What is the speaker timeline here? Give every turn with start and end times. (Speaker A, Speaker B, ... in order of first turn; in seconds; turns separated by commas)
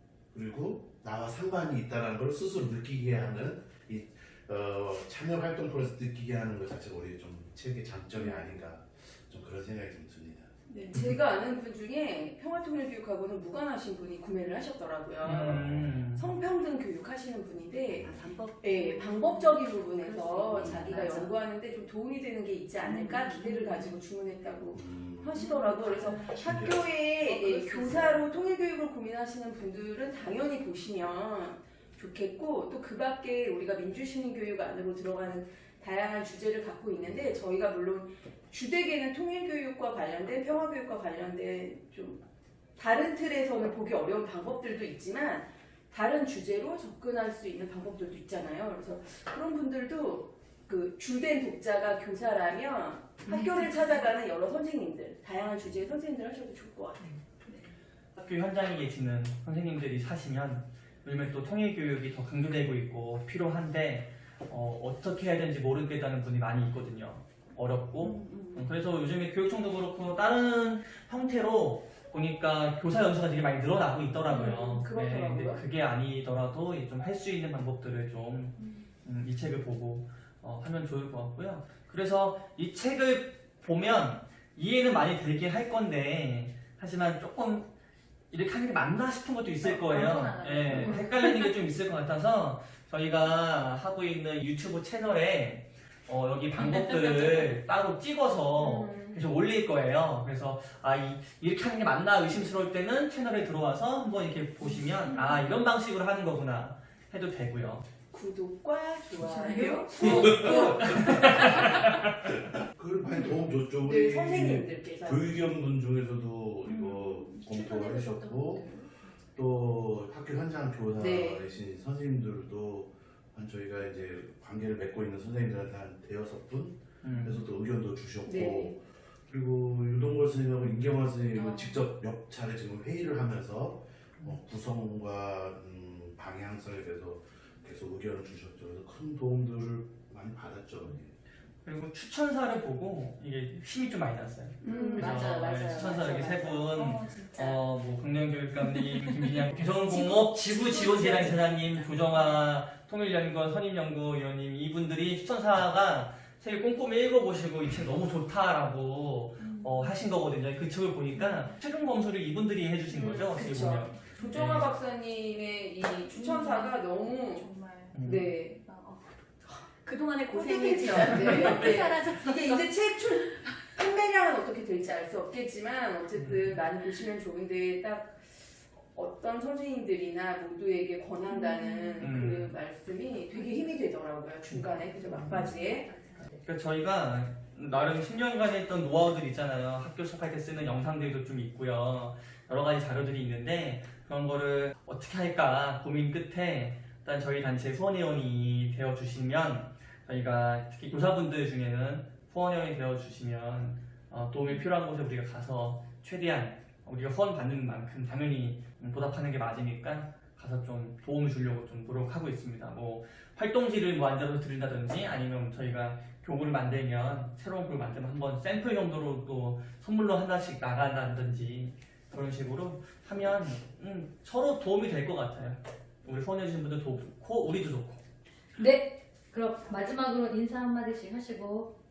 Speaker A: 0.3-10.5, Speaker B: 8.2-8.5, Speaker B: 10.7-18.1, Speaker C: 15.2-16.3, Speaker A: 15.3-16.0, Speaker D: 18.0-21.4, Speaker B: 18.6-42.2, Speaker A: 20.5-21.0, Speaker D: 22.8-24.0, Speaker A: 24.7-25.5, Speaker D: 25.4-26.3, Speaker A: 26.2-26.9, Speaker D: 27.2-28.2, Speaker B: 42.8-57.1, Speaker D: 53.3-54.0, Speaker C: 58.2-87.7, Speaker D: 68.0-68.6, Speaker B: 74.2-75.6, Speaker D: 74.3-74.6, Speaker C: 88.3-107.8, Speaker E: 89.6-91.3, Speaker E: 96.6-97.5, Speaker B: 98.5-99.2, Speaker B: 108.1-110.9, Speaker E: 109.2-110.4, Speaker C: 110.0-112.1, Speaker A: 110.0-111.4, Speaker A: 112.5-118.7, Speaker B: 113.1-115.3, Speaker D: 117.4-118.6, Speaker A: 119.4-141.1, Speaker B: 121.0-121.4, Speaker C: 127.0-127.4, Speaker B: 128.2-128.8, Speaker C: 141.6-164.7, Speaker B: 144.6-146.6, Speaker D: 144.7-146.1, Speaker E: 145.0-145.4, Speaker D: 146.7-147.6, Speaker D: 150.5-152.1, Speaker B: 162.9-167.5, Speaker D: 167.4-167.9, Speaker C: 167.9-168.3, Speaker B: 168.0-168.6, Speaker D: 168.7-169.0, Speaker D: 169.8-173.5, Speaker B: 170.3-185.9, Speaker C: 176.2-176.6, Speaker E: 181.7-182.1, Speaker C: 182.0-182.5, Speaker E: 185.1-185.6, Speaker C: 185.2-185.5, Speaker C: 186.4-228.0, Speaker E: 228.6-231.7